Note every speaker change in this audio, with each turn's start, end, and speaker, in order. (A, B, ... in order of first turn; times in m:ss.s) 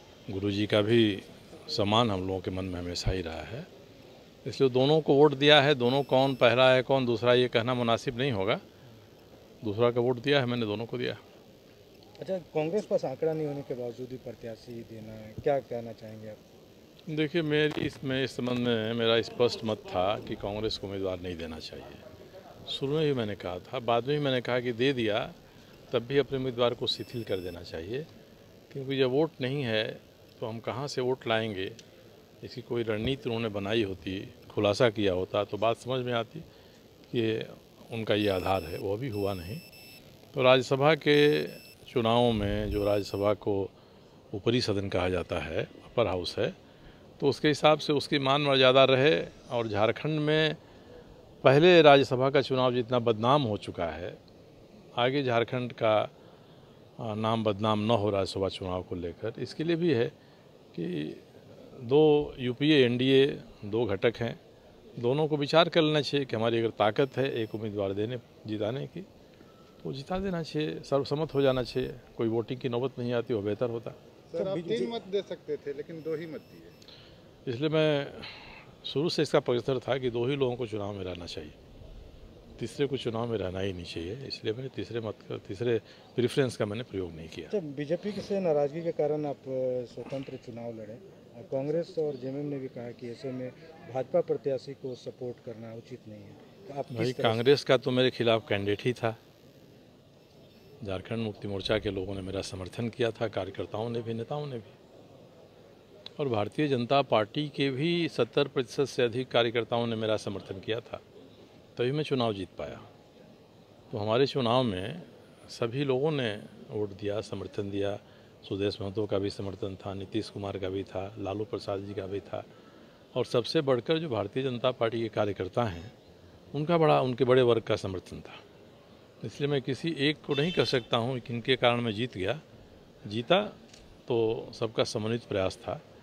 0:00.3-0:03.7 A
0:04.4-0:08.6 A
0:09.6-0:11.2 A
0:12.2-0:16.4 B
0:17.1-0:22.0 A
0:22.7-0:25.4 A
0:25.9-0:28.1 A
0:28.7-0:31.8 A
0:32.4-0:36.4 A
0:37.1-0:39.6 A
0:40.3-0:43.7 A
0:44.3-0:46.6 A
0:47.2-0:50.6 A
0:51.4-0:54.2 A
0:55.0-0:56.1 A
0:57.0-1:00.1 A
1:00.7-1:04.4 A
1:05.0-1:09.1 A
1:09.8-1:14.0 A
1:14.3-1:16.7 C
1:14.4-1:15.0 B
1:17.5-1:21.6 A
1:22.6-1:27.5 A
1:27.5-1:37.4 B
1:36.9-1:39.2 A
1:40.8-1:44.7 A
1:46.2-1:51.0 A
1:51.8-1:52.9 A
1:53.9-2:02.4 A
2:03.1-2:05.9 A
2:06.5-2:08.4 A
2:09.2-2:12.4 A
2:13.1-2:13.5 A
2:14.1-2:15.8 A